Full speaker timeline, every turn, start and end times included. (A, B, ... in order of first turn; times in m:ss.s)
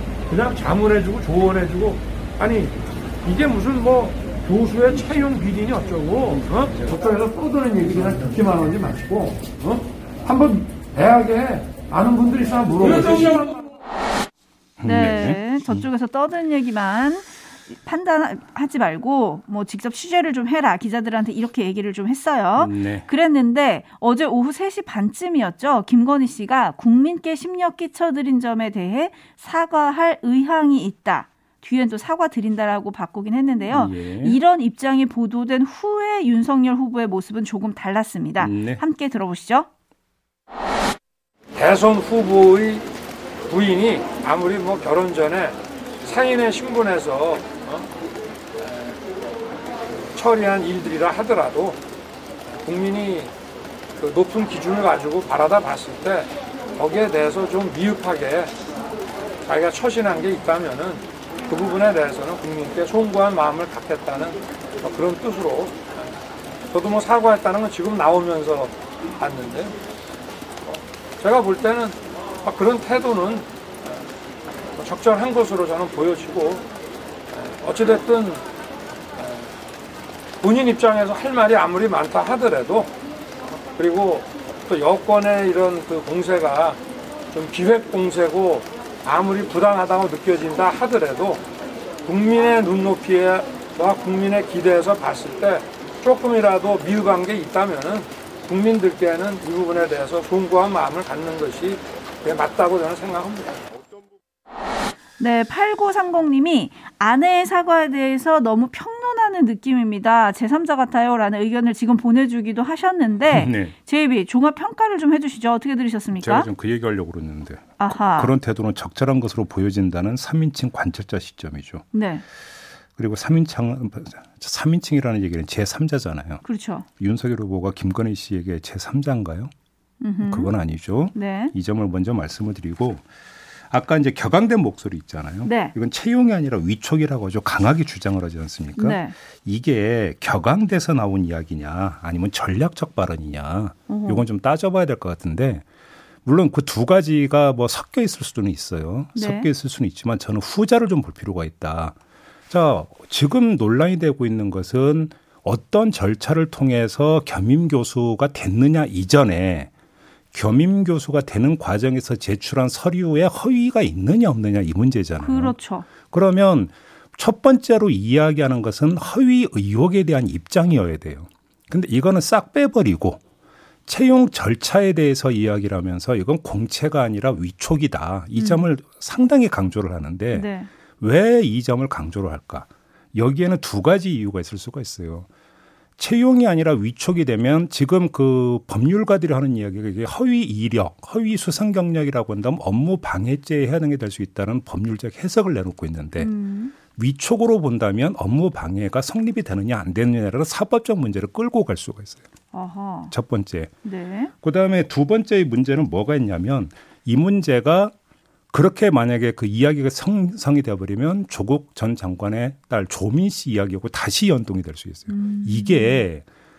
0:00.3-0:13.6 A
0:14.8-0:15.9 B
0:14.8-0:39.7 C
0:22.6-0:23.1 B
0:33.7-0:34.4 B
0:38.4-0:38.8 B
0:41.5-0:42.9 A
0:43.5-0:47.9 A
0:50.1-0:51.8 A
0:52.6-0:53.3 A
0:54.0-0:58.5 A
0:59.5-1:05.8 A
1:06.7-1:09.8 A
1:10.7-1:13.5 A
1:14.8-1:16.6 A
1:17.3-1:18.4 A
1:20.4-1:22.9 A
1:23.8-1:26.8 A
1:27.3-1:31.4 A
1:32.1-1:43.6 A
1:45.2-1:56.5 C
1:53.3-1:53.8 B
1:56.2-2:01.8 B
1:57.8-1:58.4 C
2:01.9-2:02.2 C
2:03.0-2:06.4 B
2:06.4-2:06.9 C
2:07.0-2:09.5 B
2:10.0-2:10.5 C
2:10.2-2:13.1 B
2:11.1-2:11.5 C
2:13.7-2:25.6 B
2:15.4-2:15.7 C
2:18.8-2:19.2 C
2:23.9-2:24.2 C
2:26.2-2:32.0 B
2:29.2-2:29.5 C
2:32.5-2:39.7 B
2:40.3-2:53.2 B
2:45.2-2:45.9 C
2:53.9-3:00.5 B
2:58.4-2:58.6 C
3:00.3-3:00.7 C
3:01.0-3:05.3 B
3:06.0-3:16.3 B
3:16.2-3:16.8 C
3:16.9-3:22.2 B
3:22.5-3:23.1 C
3:23.1-3:23.7 B
3:23.8-3:24.3 C
3:24.4-3:27.9 B
3:28.5-3:36.2 B
3:35.1-3:36.1 C